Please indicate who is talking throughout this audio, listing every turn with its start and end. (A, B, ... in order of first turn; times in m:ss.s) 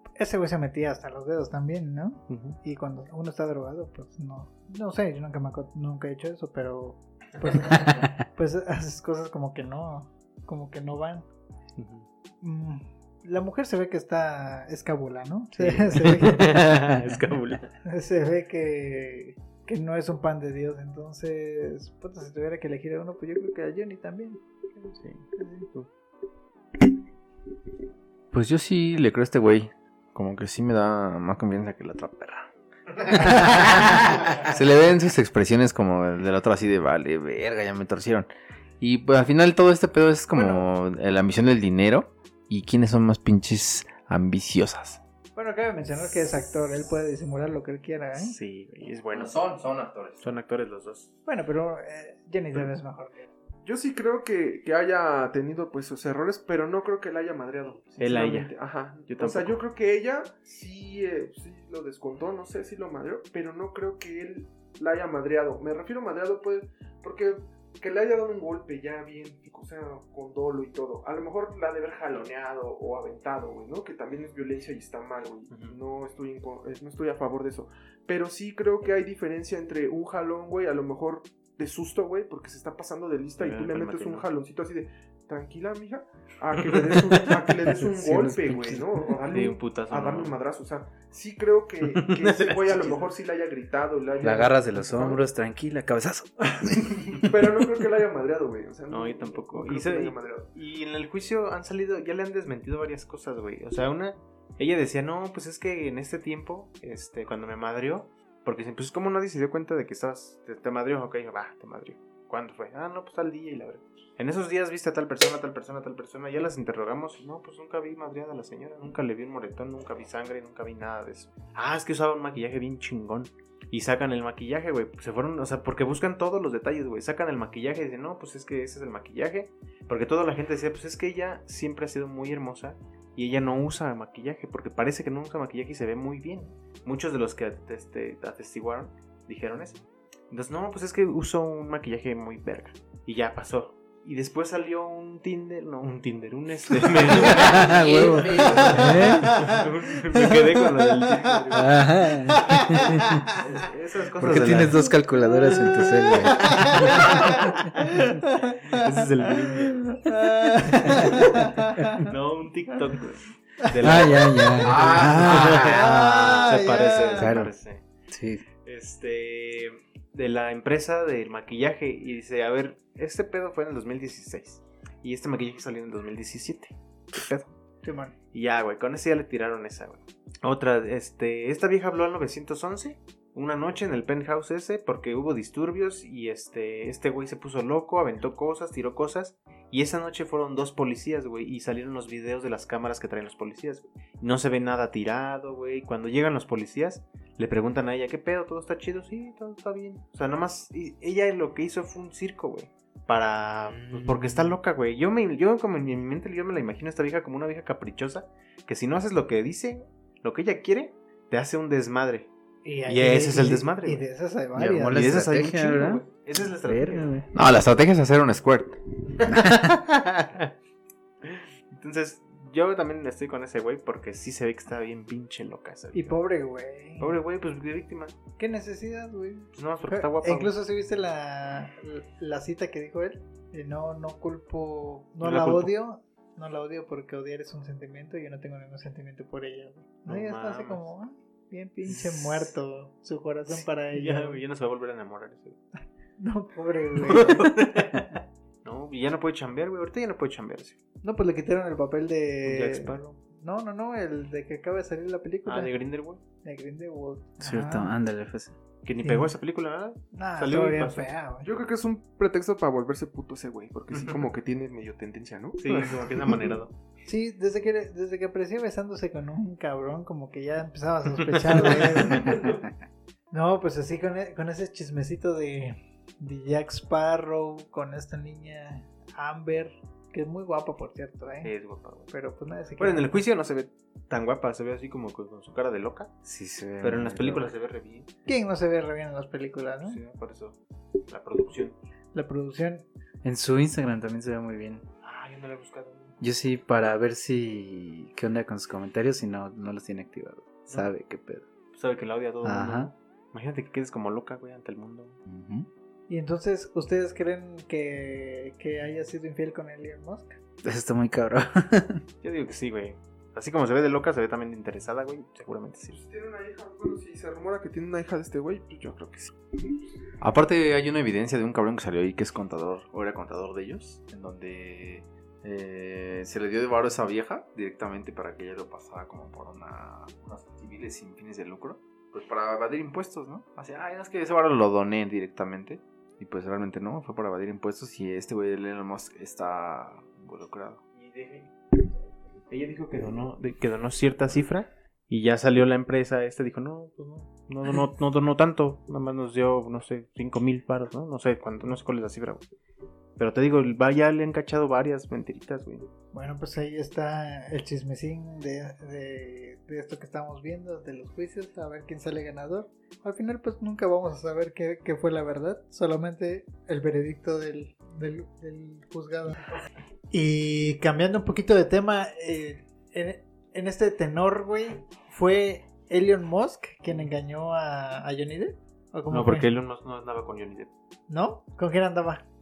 0:00.2-0:11.2 A
0:02.3-0:02.6 B
0:11.8-0:12.0 B
0:12.4-0:16.6 A
0:15.6-0:17.7 B
0:17.8-0:24.4 A
0:24.9-0:25.9 B
0:25.4-0:25.7 A
0:28.3-0:32.5 C
0:33.0-0:38.3 C
0:38.8-0:45.0 C
0:40.3-0:40.6 A
0:45.4-0:48.4 A
0:48.2-0:49.4 B
0:49.1-0:50.2 C
0:50.2-0:51.2 B
0:51.2-0:53.3 A
0:53.6-1:35.2 D
0:58.0-0:58.5 B
0:59.1-0:59.6 B
1:15.5-1:15.8 B
1:23.4-1:24.2 B
1:26.6-1:27.4 B
1:27.8-1:28.9 E
1:29.2-1:30.3 B
1:31.8-1:33.0 B
1:34.2-1:37.1 E
1:37.1-1:40.5 D
1:38.9-2:32.0 B
2:27.2-2:29.4 E
2:27.8-2:28.9 C
2:28.2-2:31.1 A
2:31.5-2:33.2 E
2:32.2-2:33.3 A
2:33.5-2:34.9 B
2:34.2-2:36.9 E
2:35.5-2:42.1 A
2:36.4-2:39.9 B
2:40.7-2:41.1 E
2:40.8-2:41.5 B
2:41.7-2:42.0 E
2:42.0-2:47.8 B
2:43.8-2:46.5 E
2:44.6-2:45.7 C
2:45.6-2:47.3 A
2:47.2-2:47.5 E
2:48.1-2:48.4 E
2:48.6-2:57.5 B
2:57.8-2:58.1 A
2:58.3-3:32.3 B
3:32.6-3:35.0 A
3:32.9-3:34.0 B
3:34.5-3:36.0 E
3:34.9-3:37.1 B
3:36.6-3:37.3 E
3:37.3-3:38.8 C
3:39.3-3:40.5 B
3:39.3-3:39.7 E
3:41.2-3:46.2 B
3:45.9-3:47.1 A
3:47.0-3:48.2 B
3:48.4-4:04.4 A
3:49.5-3:50.5 B
3:55.2-3:55.7 B
4:00.0-4:00.9 B
4:01.8-4:02.5 B
4:03.5-4:05.6 B
4:06.2-4:08.0 A
4:07.0-4:08.1 B
4:08.6-4:10.8 B
4:11.0-4:15.7 A
4:12.4-4:13.0 B
4:15.4-4:16.2 B
4:16.4-4:17.9 A
4:17.4-4:18.5 E
4:18.8-4:21.1 B
4:19.0-4:19.3 A
4:20.1-4:21.6 A
4:21.4-4:26.4 D
4:25.6-4:26.7 B
4:27.0-4:32.5 A
4:31.3-4:32.6 B
4:33.3-4:41.5 A
4:41.4-4:42.1 B
4:42.1-4:43.2 A
4:42.8-4:46.1 B
4:46.2-4:47.5 E
4:46.8-4:48.1 B
4:48.2-4:50.0 A
4:49.8-4:51.8 B
4:52.1-4:52.8 A
4:53.2-4:54.8 E
4:55.0-4:56.1 B
4:56.2-5:01.4 E
5:01.7-5:05.2 B
5:02.4-5:02.9 E
5:05.2-5:05.7 E
5:06.1-5:10.3 A
5:10.6-5:12.0 E
5:12.2-5:16.0 B
5:15.9-5:19.3 D
5:20.2-5:40.8 C
5:41.0-5:41.5 B
5:42.5-5:52.4 B
5:53.2-5:55.9 B
5:56.1-6:09.5 A
6:10.1-6:19.5 A
6:19.1-6:20.7 B
6:21.1-6:22.2 A